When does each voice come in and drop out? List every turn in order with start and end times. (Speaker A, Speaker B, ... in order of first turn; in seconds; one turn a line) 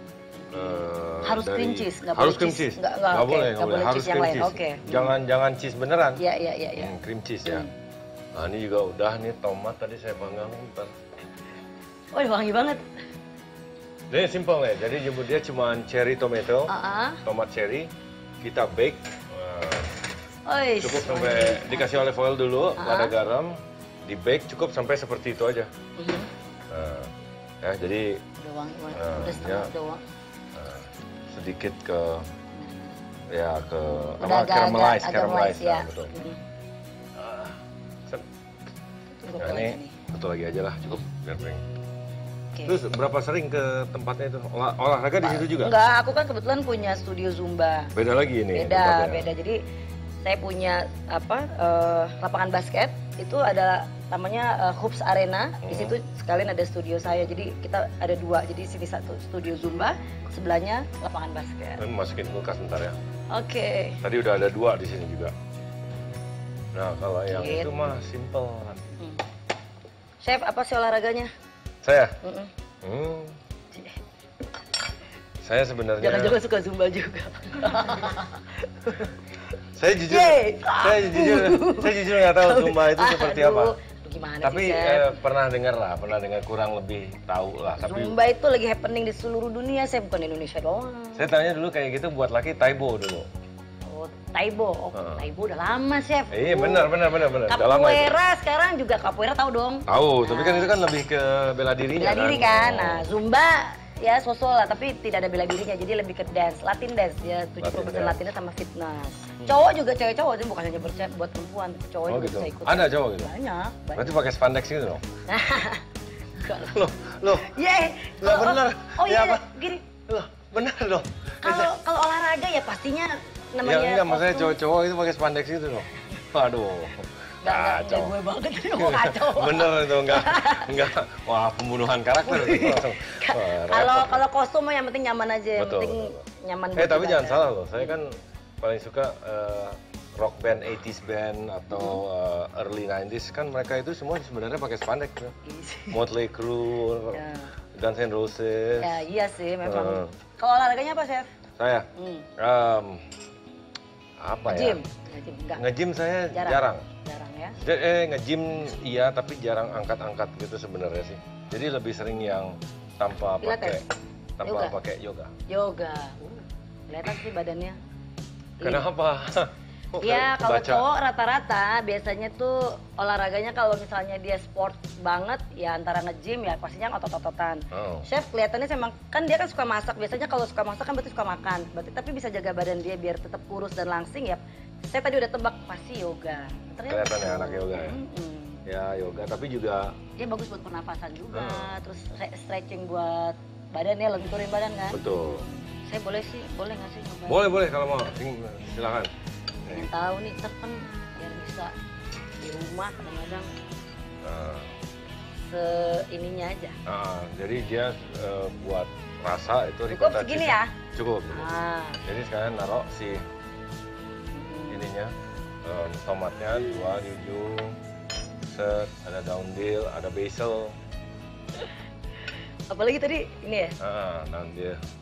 Speaker A: 0.4-5.2
Speaker B: 0.5-6.2
Speaker A: 6.2-6.9
Speaker B: 6.8-7.7
Speaker A: 7.5-7.7
Speaker B: 8.3-10.9
Speaker A: 12.1-12.8
Speaker B: 14.1-16.7
Speaker A: 16.7-17.2
Speaker B: 17.2-17.9
Speaker B: 18.4-19.9
Speaker A: 20.4-22.1
Speaker B: 20.8-25.7
Speaker A: 22.8-23.2
Speaker A: 26.0-26.3
Speaker B: 26.7-28.2
Speaker A: 28.4-30.0
Speaker B: 28.9-29.7
Speaker B: 30.5-32.3
Speaker A: 32.5-33.0
Speaker B: 33.3-36.1
Speaker A: 34.1-36.4
Speaker B: 37.1-38.2
Speaker A: 39.2-40.0
Speaker B: 39.4-41.6
Speaker A: 42.5-42.8
Speaker B: 42.6-45.8
Speaker A: 45.2-47.9
Speaker B: 47.9-49.3
Speaker A: 48.5-49.6
Speaker A: 50.2-61.8
Speaker B: 55.6-55.9
Speaker B: 61.8-63.0
Speaker A: 63.3-64.0
Speaker B: 64.0-65.3
Speaker B: 66.7-68.9
Speaker A: 67.3-67.9
Speaker A: 70.2-71.3
Speaker B: 71.8-72.2
Speaker A: 72.2-72.5
Speaker B: 72.8-73.4
Speaker A: 73.7-74.0
Speaker B: 75.4-76.4
Speaker A: 76.0-79.4
Speaker B: 79.7-83.7
Speaker A: 80.0-85.2
Speaker B: 84.4-88.1
Speaker A: 87.8-91.3
Speaker B: 91.1-93.3
Speaker A: 93.9-100.8
Speaker B: 94.9-95.2
Speaker B: 96.3-98.1
Speaker B: 99.9-103.1
Speaker A: 101.9-114.2
Speaker B: 107.6-108.2
Speaker B: 112.0-113.3
Speaker B: 113.9-115.0
Speaker A: 115.3-119.9
Speaker B: 116.6-117.6
Speaker B: 118.2-119.5
Speaker B: 120.0-121.7
Speaker A: 121.4-124.6
Speaker B: 123.6-128.1
Speaker A: 127.4-130.9
Speaker B: 128.7-134.2
Speaker A: 132.2-138.0
Speaker B: 135.6-136.2
Speaker B: 136.8-145.3
Speaker A: 141.7-142.0
Speaker A: 145.4-146.0
Speaker B: 145.9-149.0
Speaker A: 147.1-147.5
Speaker A: 148.8-151.3
Speaker B: 149.6-150.2
Speaker B: 151.6-153.1
Speaker A: 151.9-152.3
Speaker B: 154.2-154.8
Speaker A: 154.5-155.6
Speaker B: 155.6-156.9
Speaker A: 156.3-157.6
Speaker B: 157.6-163.8
Speaker A: 163.4-163.8
Speaker B: 164.4-165.3
Speaker A: 164.4-164.7
Speaker A: 165.5-167.8
Speaker A: 168.6-168.9
Speaker B: 168.6-170.8
Speaker A: 169.9-188.6
Speaker B: 177.7-178.1
Speaker B: 186.9-188.0
Speaker B: 188.7-189.9
Speaker A: 190.2-197.6
Speaker B: 191.3-191.7
Speaker B: 194.9-195.4
Speaker B: 197.3-199.1
Speaker A: 199.7-201.7
Speaker A: 202.4-203.5
Speaker B: 204.2-204.7
Speaker A: 205.3-206.8
Speaker B: 206.8-213.2
Speaker A: 209.9-210.7
Speaker A: 211.3-212.0
Speaker A: 214.3-214.9
Speaker B: 214.7-215.1
Speaker B: 215.6-217.8
Speaker A: 216.5-216.9
Speaker B: 218.4-220.7
Speaker A: 222.7-223.8
Speaker B: 223.8-224.8